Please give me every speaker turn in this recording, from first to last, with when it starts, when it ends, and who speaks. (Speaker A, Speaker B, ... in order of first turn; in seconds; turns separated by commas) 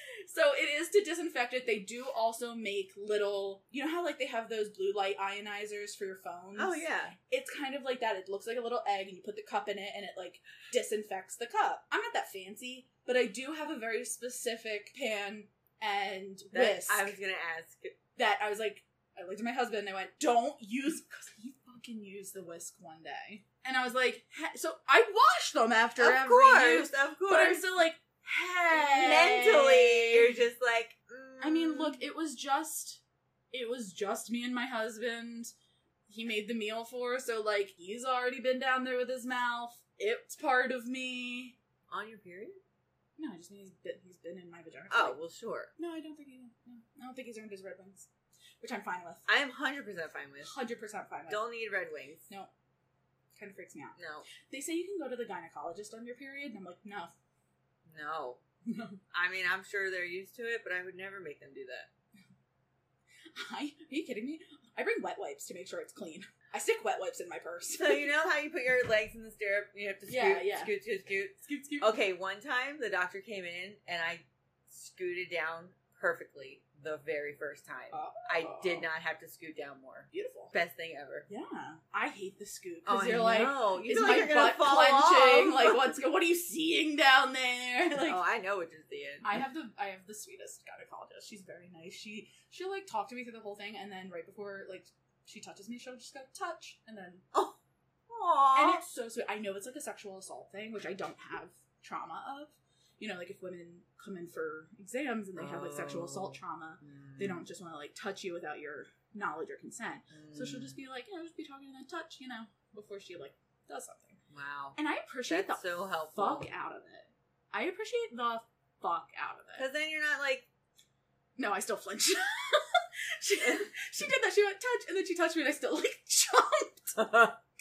Speaker A: 0.2-17.1, Speaker B: 6.5-7.1, Speaker B: 16.5-17.9, Speaker A: 18.1-30.4, Speaker B: 26.0-27.6, Speaker B: 28.7-32.0, Speaker A: 31.4-35.5, Speaker A: 36.1-41.5, Speaker B: 41.9-42.6, Speaker A: 43.2-45.2, Speaker B: 44.9-45.7, Speaker A: 45.8-48.1, Speaker A: 48.6-49.2, Speaker B: 49.2-50.5, Speaker A: 50.4-51.4, Speaker B: 51.3-52.2, Speaker A: 53.3-57.1, Speaker B: 54.0-54.3, Speaker B: 57.9-58.4, Speaker A: 58.6-59.0, Speaker B: 59.1-61.9, Speaker A: 63.3-68.1, Speaker B: 67.8-81.3, Speaker A: 70.1-70.7, Speaker A: 71.4-72.0, Speaker A: 77.9-78.9, Speaker A: 80.1-80.5, Speaker A: 81.3-88.2, Speaker B: 82.8-85.9, Speaker B: 88.0-89.3, Speaker A: 89.2-97.2, Speaker B: 97.3-97.6, Speaker B: 98.1-98.8, Speaker A: 98.5-114.2, Speaker B: 105.3-107.4, Speaker B: 110.1-110.8, Speaker B: 114.3-116.5, Speaker A: 114.8-119.7, Speaker B: 119.5-120.5, Speaker A: 121.4-126.9, Speaker B: 123.4-123.7, Speaker B: 126.9-127.4